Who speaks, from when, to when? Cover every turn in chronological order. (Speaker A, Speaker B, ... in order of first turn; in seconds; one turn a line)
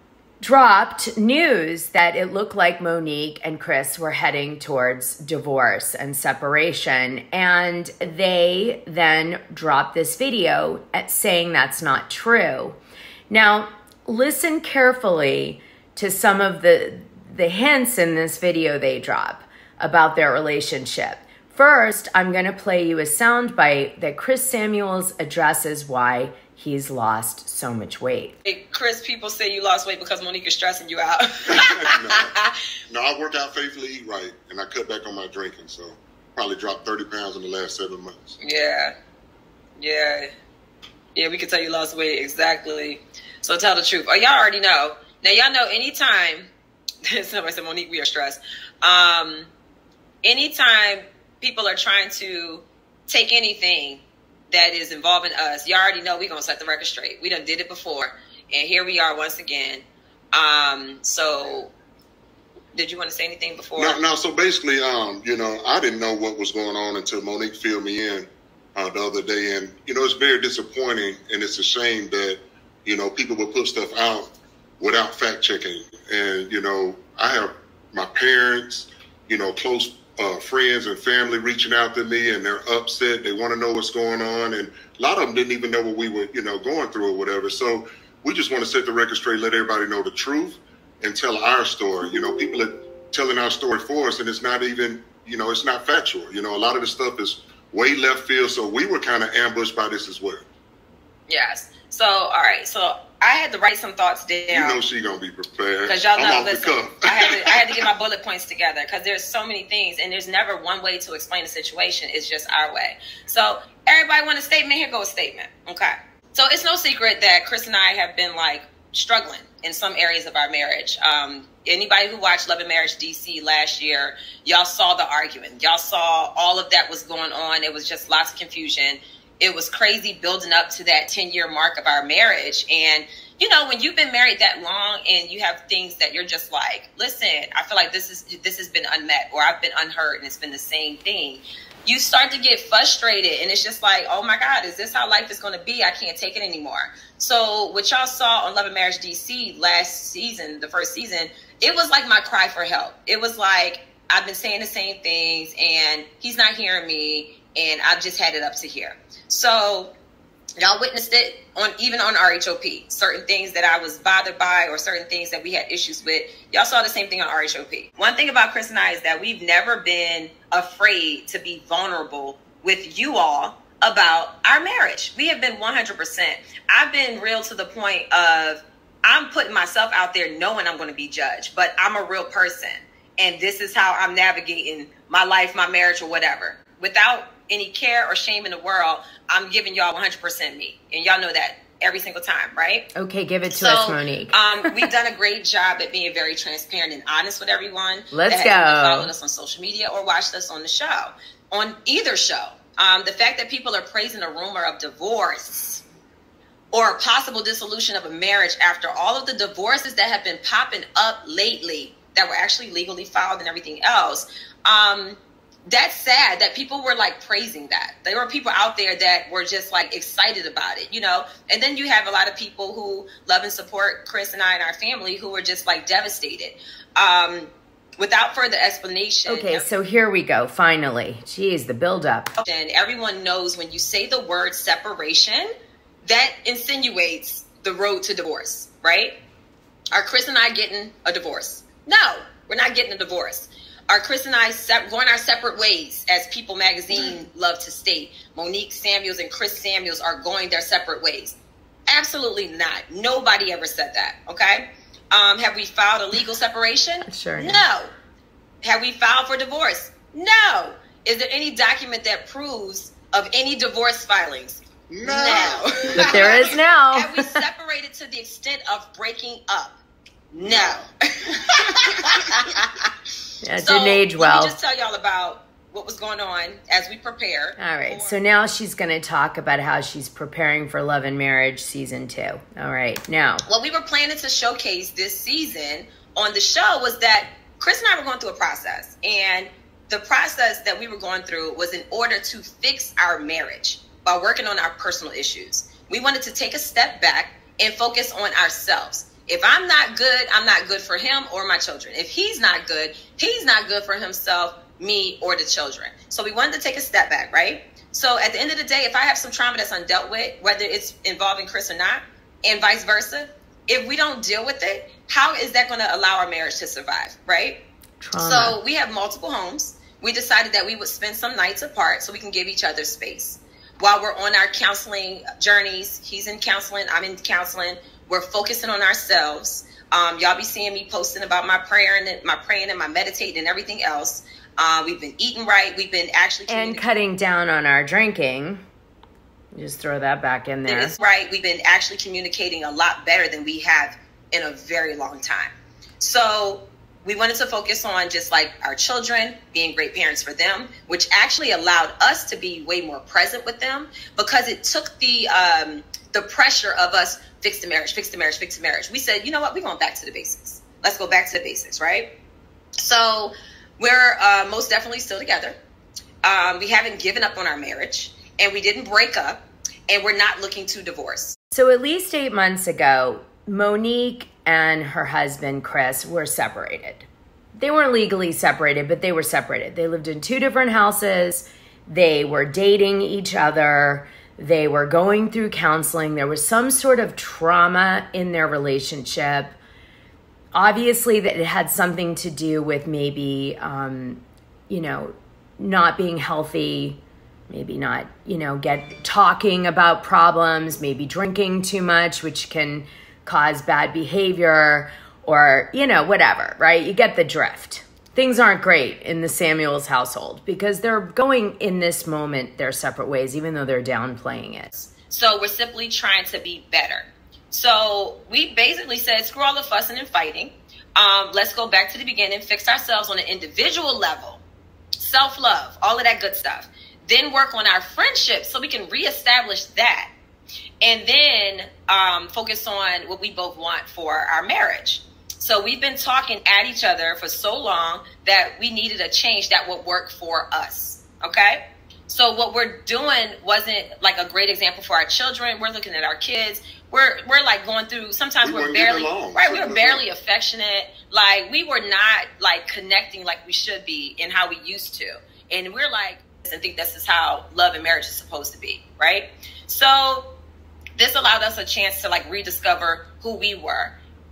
Speaker A: 0.4-12.8
Speaker A: 13.3-28.4
Speaker B: 28.4-32.5
Speaker C: 31.5-32.3
Speaker C: 32.9-38.4
Speaker B: 38.4-38.9
Speaker B: 39.8-40.3
Speaker B: 41.1-46.5
Speaker B: 47.0-49.5
Speaker B: 50.2-61.7
Speaker B: 62.7-64.0
Speaker C: 63.8-74.3
Speaker C: 74.8-100.4
Speaker B: 101.3-104.8
Speaker C: 104.5-107.8
Speaker B: 105.8-159.9
Speaker B: 160.6-192.9
Speaker A: 192.9-194.3
Speaker B: 193.5-205.8
Speaker A: 198.1-199.1
Speaker B: 206.7-229.7
Speaker A: 229.2-232.3
Speaker B: 232.4-235.5
Speaker B: 236.0-239.1
Speaker B: 239.9-251.3
Speaker B: 251.9-257.9
Speaker A: 257.0-257.6
Speaker B: 258.6-269.8
Speaker C: 264.9-266.4
Speaker A: 265.9-267.3
Speaker B: 270.3-272.9
Speaker A: 273.4-274.5
Speaker B: 273.5-278.2
Speaker A: 277.6-283.4
Speaker B: 283.4-317.6
Speaker A: 318.0-318.6
Speaker B: 318.2-336.9
Speaker A: 336.5-338.6
Speaker A: 339.5-340.9
Speaker B: 340.6-362.1
Speaker B: 362.8-365.6
Speaker B: 366.2-371.4
Speaker A: 371.5-377.1
Speaker A: 377.6-389.6
Speaker A: 390.5-414.9
Speaker B: 414.9-424.4
Speaker B: 425.0-430.1
Speaker B: 430.8-460.3
Speaker C: 448.4-450.0
Speaker B: 460.9-463.9